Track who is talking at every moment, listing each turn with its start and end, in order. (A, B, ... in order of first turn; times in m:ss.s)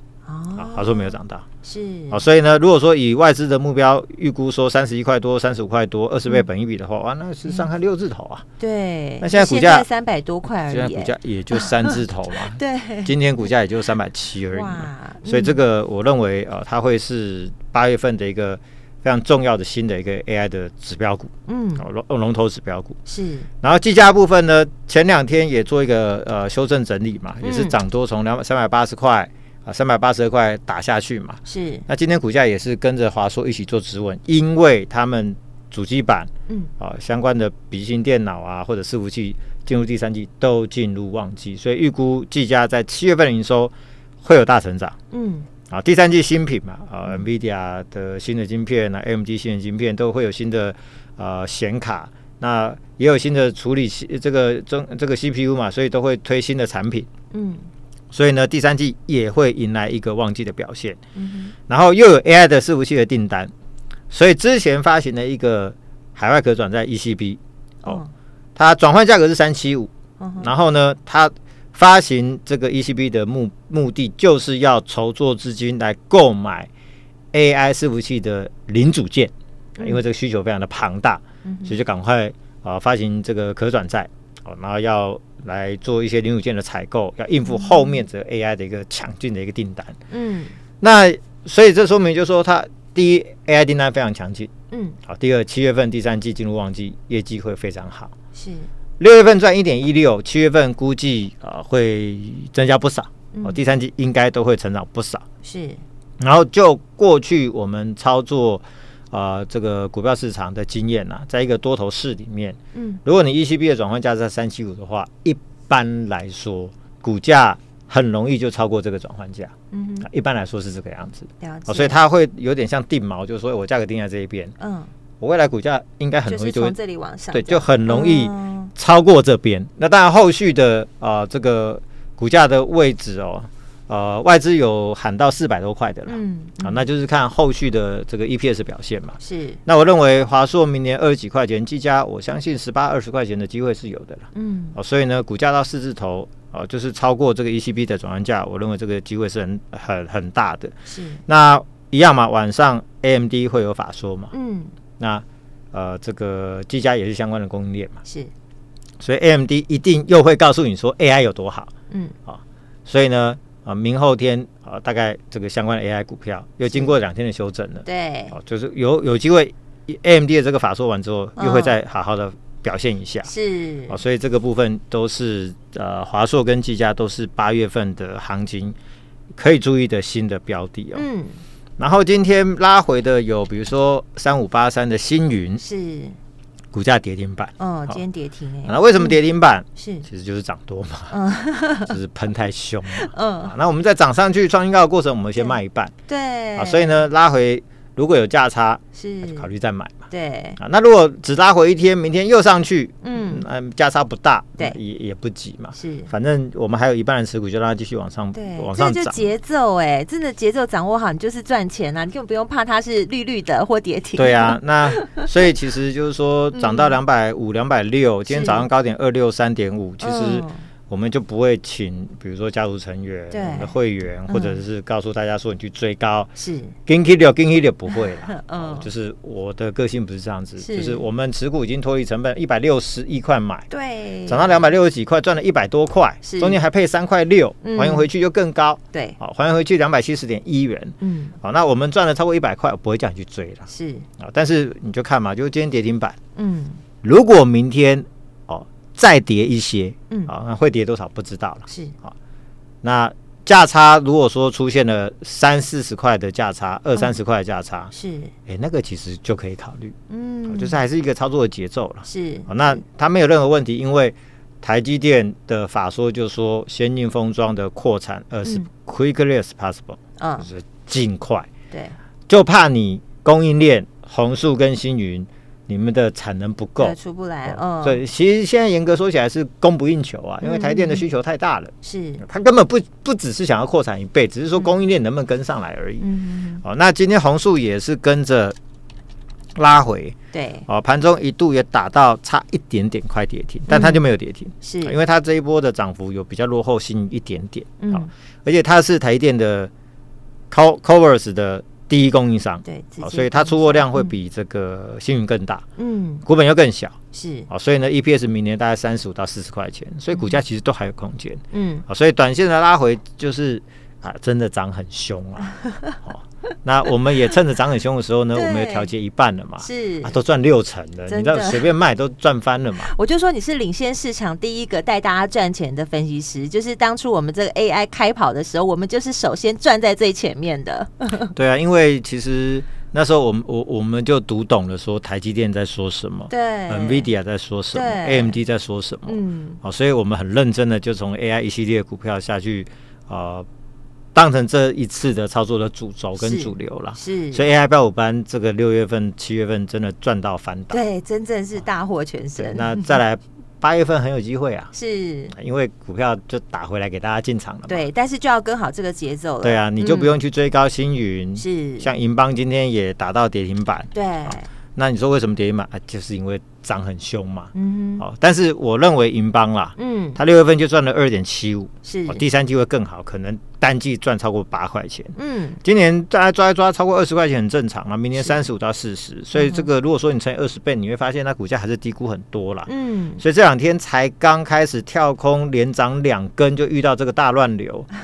0:00.2-0:02.2 A
0:00.6-0:01.4 B
0:02.1-0:08.4 B
0:08.6-0:12.0 A
0:09.2-0:09.9 B
0:10.5-0:23.0 B
0:12.5-0:13.2 A
0:14.5-0:15.6 A
0:21.5-0:21.8 A
0:23.0-0:23.5 A
0:23.6-0:45.0 B
0:27.4-0:27.7 A
0:31.4-0:31.8 A
0:45.1-0:45.5 A
0:45.7-0:57.1 B
0:57.3-0:57.7 A
0:58.1-1:01.0 B
1:01.1-1:01.5 A
1:01.7-1:03.5 B
1:04.1-1:08.0 B
1:07.8-1:08.1 A
1:08.6-1:16.7 B
1:10.2-1:10.5 A
1:17.3-1:30.0 B
1:21.4-1:21.8 A
1:30.1-1:30.5 A
1:30.8-1:34.5 B
1:34.7-1:35.0 A
1:35.0-1:38.1 B
1:38.3-1:38.7 A
1:39.0-1:45.2 B
1:43.3-1:43.6 A
1:45.4-1:45.8 A
1:46.2-2:04.5 B
1:52.7-1:53.0 A
1:59.7-2:00.1 A
2:01.4-2:02.0 A
2:04.6-2:04.9 A
2:05.2-2:06.8 B
2:06.2-2:08.7 A
2:07.3-2:30.7 B
2:16.0-2:16.8 A
2:19.2-2:19.6 A
2:24.3-2:24.8 A
2:30.9-2:31.2 A
2:31.3-2:34.3 B
2:34.3-2:34.7 A
2:35.0-2:38.0 B
2:38.0-2:38.3 A
2:39.0-2:41.7 B
2:41.9-2:42.1 A
2:42.3-2:53.3 B
2:47.8-2:48.4 A
2:51.4-2:51.8 A
2:53.2-2:54.0 A
2:53.9-2:58.8 B
2:59.4-3:01.1 B
3:00.9-3:01.4 A
3:01.8-3:05.6 B
3:05.6-3:06.2 A
3:06.7-3:08.0 B
3:07.6-3:09.2 A
3:08.6-3:11.2 B
3:09.8-3:10.1 A
3:11.1-3:12.0 A
3:11.9-3:15.9 B
3:12.9-3:13.5 A
3:15.4-3:17.0 A
3:16.6-3:20.0 B
3:18.9-3:19.5 A
3:20.1-3:20.6 A
3:20.6-3:29.3 B
3:23.0-3:23.4 A
3:25.7-3:26.1 A
3:28.3-3:35.3 A
3:34.1-3:46.3 B
3:36.5-3:36.9 A
3:38.3-3:38.7 A
3:40.0-3:40.6 A
3:43.3-3:43.7 A
3:44.3-3:44.6 A
3:46.4-3:46.8 A
3:46.8-3:53.7 B
3:48.2-3:48.9 A
3:50.6-3:51.0 A
3:53.7-3:54.6 A
3:54.3-4:06.2 B
3:56.2-3:56.6 A
3:57.6-3:58.1 A
4:01.0-4:01.4 A
4:03.7-4:04.1 A
4:06.4-4:06.8 A
4:07.0-4:12.1 B
4:11.7-4:12.0 A
4:12.8-4:17.9 B
4:17.9-4:18.3 A
4:18.5-4:19.9 B
4:20.1-4:20.8 A
4:20.5-4:31.5 B
4:22.0-4:22.8 A
4:30.2-4:30.5 A
4:31.7-4:32.0 A
4:32.3-4:46.1 B
4:36.8-4:38.0 A
4:40.4-4:41.0 A
4:41.8-4:42.2 A
4:46.0-4:46.6 A
4:46.6-4:48.6 B
4:49.6-4:59.7 B
4:50.3-4:50.7 A
4:53.7-4:54.0 A
4:54.6-4:54.9 A
4:57.8-4:58.1 A
5:00.5-5:05.6 B
5:02.6-5:04.1 A
5:05.8-5:06.2 A
5:06.2-5:07.0 B
5:07.1-5:07.5 A
5:07.5-5:22.9 B
5:11.5-5:11.8 A
5:18.3-5:18.9 A
5:19.6-5:20.2 A
5:21.1-5:21.7 A
5:22.8-5:31.3 A
5:31.3-5:43.4 B
5:36.3-5:37.1 A
5:37.7-5:38.4 A
5:39.1-5:39.6 A
5:44.1-5:50.8 B
5:46.2-5:47.4 A
5:50.7-5:52.9 A
5:52.4-5:54.7 B
5:54.7-5:55.3 A
5:55.3-5:57.9 B
5:57.7-6:00.2 A
5:59.4-6:27.9 B
6:01.4-6:01.9 A
6:03.9-6:04.5 A
6:07.5-6:08.0 A
6:09.8-6:10.2 A
6:11.8-6:12.2 A
6:15.1-6:15.6 A
6:19.3-6:19.6 A
6:22.6-6:23.2 A